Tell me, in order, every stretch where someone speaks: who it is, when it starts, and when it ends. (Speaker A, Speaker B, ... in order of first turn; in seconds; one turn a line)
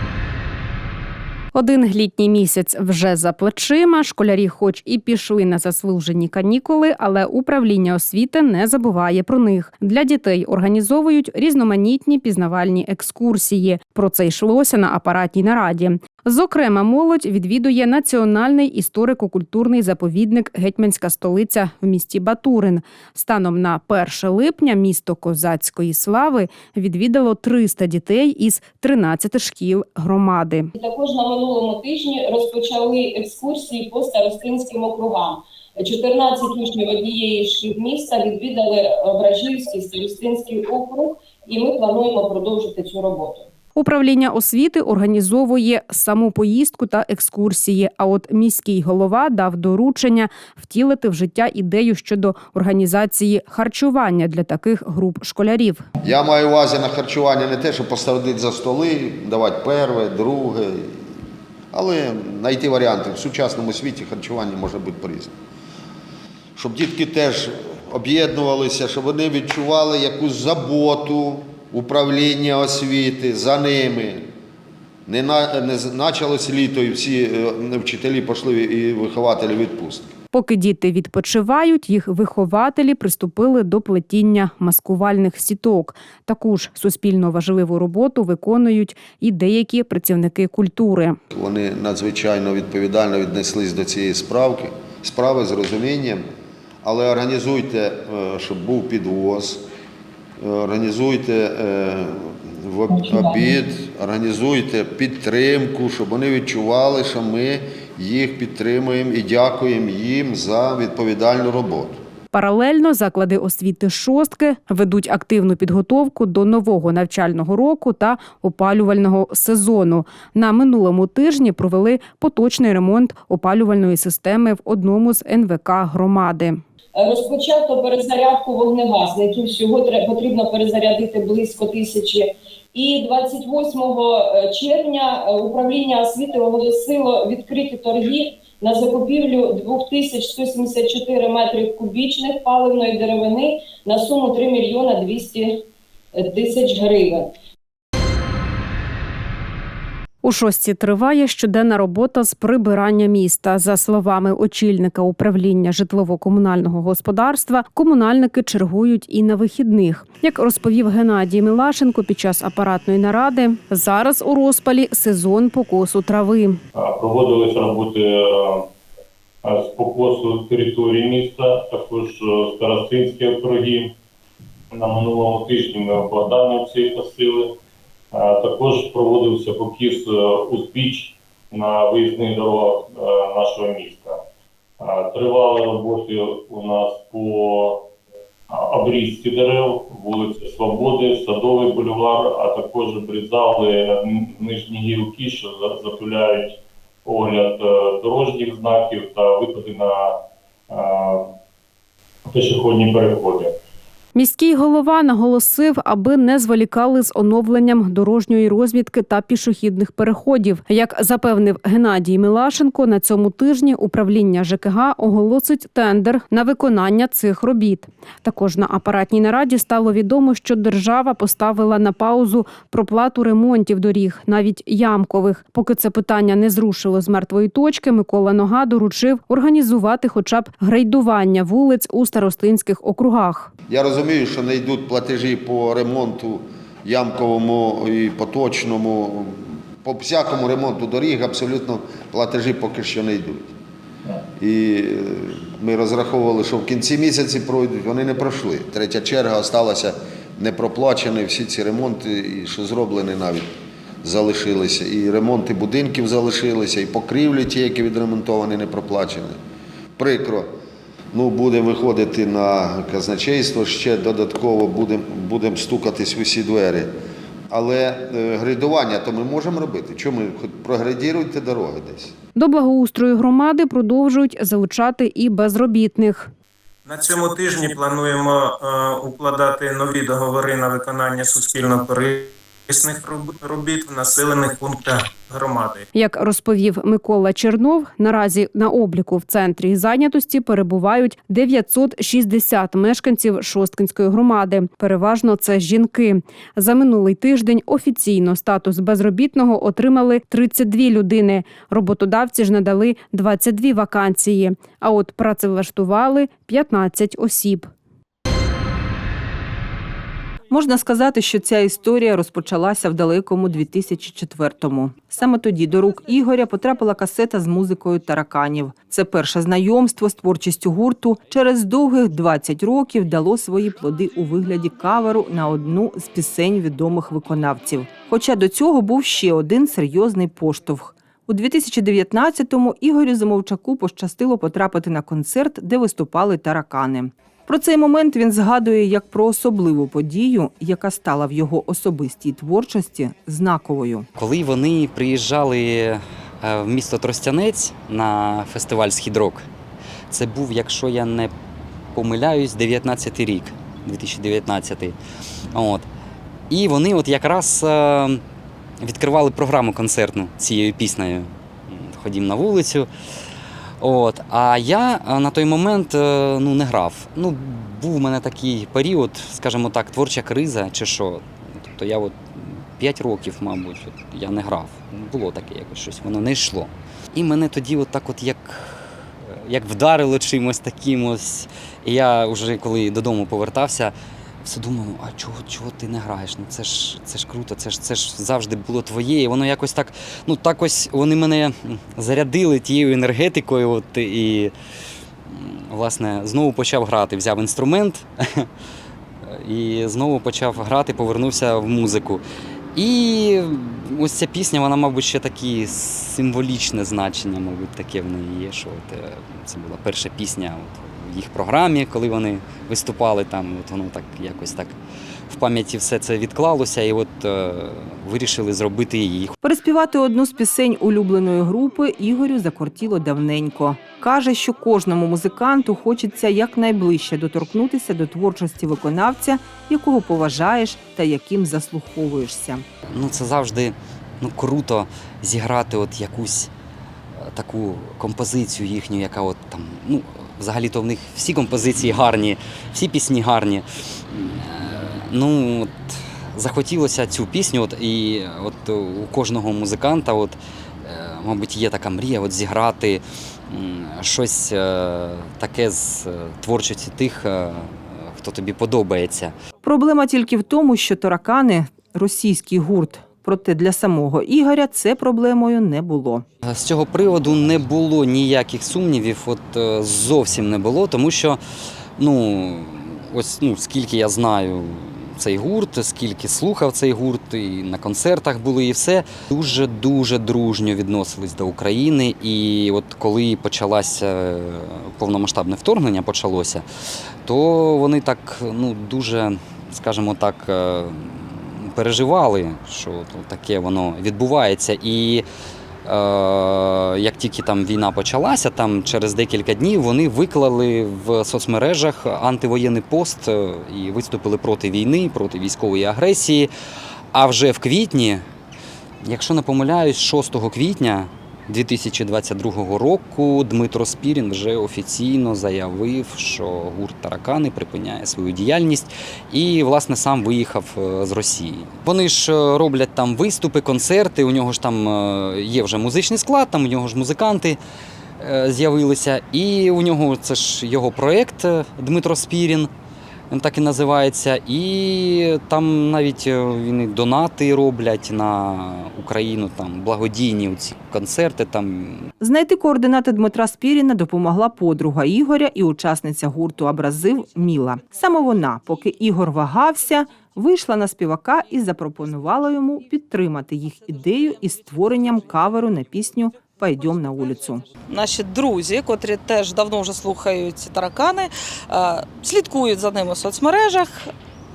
Speaker A: 1.5-30.7
Speaker B: 30.7-43.5
Speaker A: 43.8-55.8
Speaker C: 56.0-61.1
Speaker C: 61.7-65.3
Speaker C: 66.5-74.3
Speaker C: 75.0-80.1
Speaker A: 80.3-91.2
Speaker C: 91.3-96.2
Speaker C: 96.8-99.6
Speaker C: 100.4-112.0
Speaker B: 102.9-103.4
Speaker A: 112.3-126.6
Speaker B: 127.0-145.6
Speaker B: 146.1-147.3
Speaker A: 150.2-166.6
Speaker D: 166.7-168.7
Speaker D: 169.4-173.9
Speaker D: 174.7-177.5
Speaker D: 178.1-184.2
Speaker D: 184.8-187.8
Speaker D: 188.5-200.2
Speaker D: 200.7-201.3
Speaker D: 202.2-203.5
Speaker A: 204.1-233.5
Speaker C: 233.7-243.5
Speaker C: 244.4-253.5
Speaker C: 254.0-259.4
Speaker C: 260.0-260.5
Speaker C: 261.1-266.9
Speaker C: 267.5-272.1
Speaker A: 272.4-276.3
Speaker E: 276.8-285.9
Speaker A: 285.9-307.7
Speaker F: 310.5-344.1
Speaker G: 344.1-349.4
Speaker G: 350.1-351.3
Speaker G: 351.9-354.9
Speaker G: 355.5-355.9
Speaker G: 356.5-358.2
Speaker G: 358.8-362.9
Speaker G: 363.8-383.9
Speaker G: 384.4-394.5
Speaker G: 395.3-398.5
Speaker G: 399.3-402.2
Speaker G: 402.7-414.8
Speaker G: 415.3-419.4
Speaker F: 419.4-432.6
Speaker G: 432.9-436.5
Speaker G: 437.2-459.3
Speaker F: 459.6-466.2
Speaker G: 466.4-471.4
Speaker G: 472.0-486.6
Speaker G: 487.2-495.2
Speaker G: 495.8-506.5
Speaker G: 507.1-508.2
Speaker G: 509.0-527.6
Speaker G: 528.2-532.7
Speaker G: 533.3-542.1
Speaker F: 542.2-557.6
Speaker H: 557.9-564.1